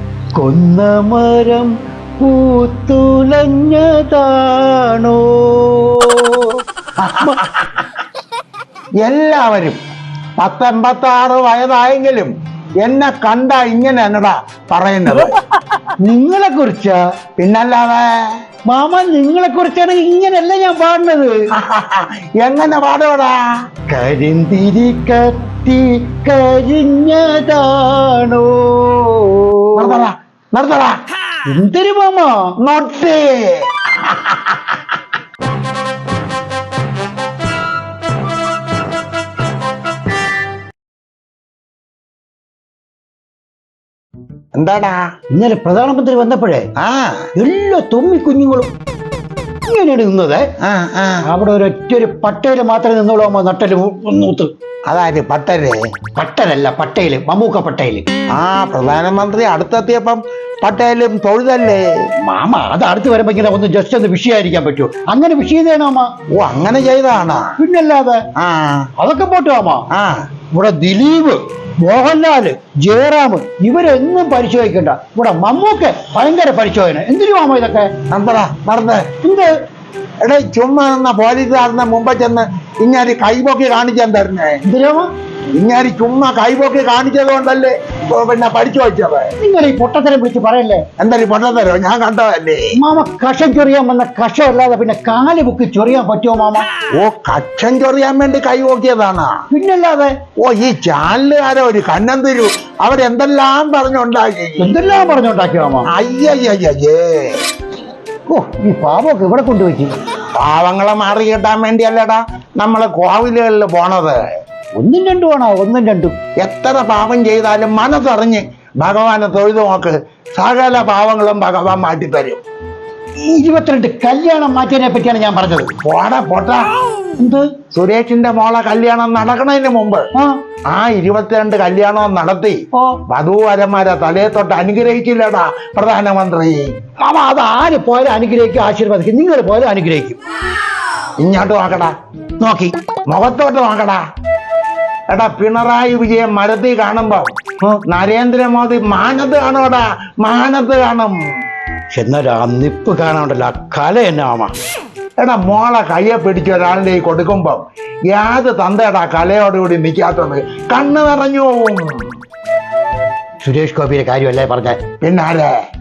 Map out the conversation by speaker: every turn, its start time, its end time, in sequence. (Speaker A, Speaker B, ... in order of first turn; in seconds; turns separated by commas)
Speaker A: 0.4-6.4, Speaker B: 7.0-7.7, Speaker B: 9.0-9.8, Speaker B: 10.4-15.4, Speaker A: 16.0-17.0, Speaker B: 17.4-18.1, Speaker A: 18.7-21.4, Speaker B: 21.6-23.4, Speaker A: 23.9-30.0, Speaker B: 29.8-31.0, Speaker A: 31.5-32.5, Speaker B: 32.6-34.6, Speaker B: 44.5-45.1, Speaker A: 45.3-46.7, Speaker B: 46.8-47.2, Speaker A: 47.4-48.7, Speaker A: 49.7-50.5, Speaker B: 50.6-51.2, Speaker A: 51.3-54.5, Speaker B: 54.9-55.8, Speaker A: 56.2-58.1, Speaker B: 58.3-61.8, Speaker A: 62.3-66.1, Speaker B: 66.4-67.5, Speaker A: 67.6-68.2, Speaker B: 68.4-68.9, Speaker A: 69.0-69.9, Speaker B: 69.9-70.2, Speaker A: 70.5-77.9, Speaker B: 78.1-79.1, Speaker A: 79.2-79.5, Speaker B: 80.2-84.6, Speaker A: 84.7-85.1, Speaker B: 85.5-89.3, Speaker A: 89.4-90.8, Speaker B: 91.0-92.7, Speaker A: 92.7-96.7, Speaker B: 96.9-99.4, Speaker A: 99.5-100.1, Speaker B: 100.4-104.7, Speaker A: 104.6-105.9, Speaker B: 105.9-107.4, Speaker A: 108.3-110.0, Speaker B: 110.4-114.2, Speaker A: 114.8-116.2, Speaker B: 116.4-122.4, Speaker A: 123.2-125.7, Speaker B: 125.8-126.7, Speaker A: 127.2-127.5, Speaker B: 127.7-130.0, Speaker B: 130.7-136.7, Speaker A: 137.0-140.2, Speaker B: 141.2-141.9, Speaker A: 142.4-142.8, Speaker B: 143.1-144.0, Speaker B: 145.1-147.3, Speaker B: 147.9-151.2, Speaker A: 151.9-154.6, Speaker B: 155.2-162.0, Speaker A: 163.4-164.8, Speaker B: 165.0-165.5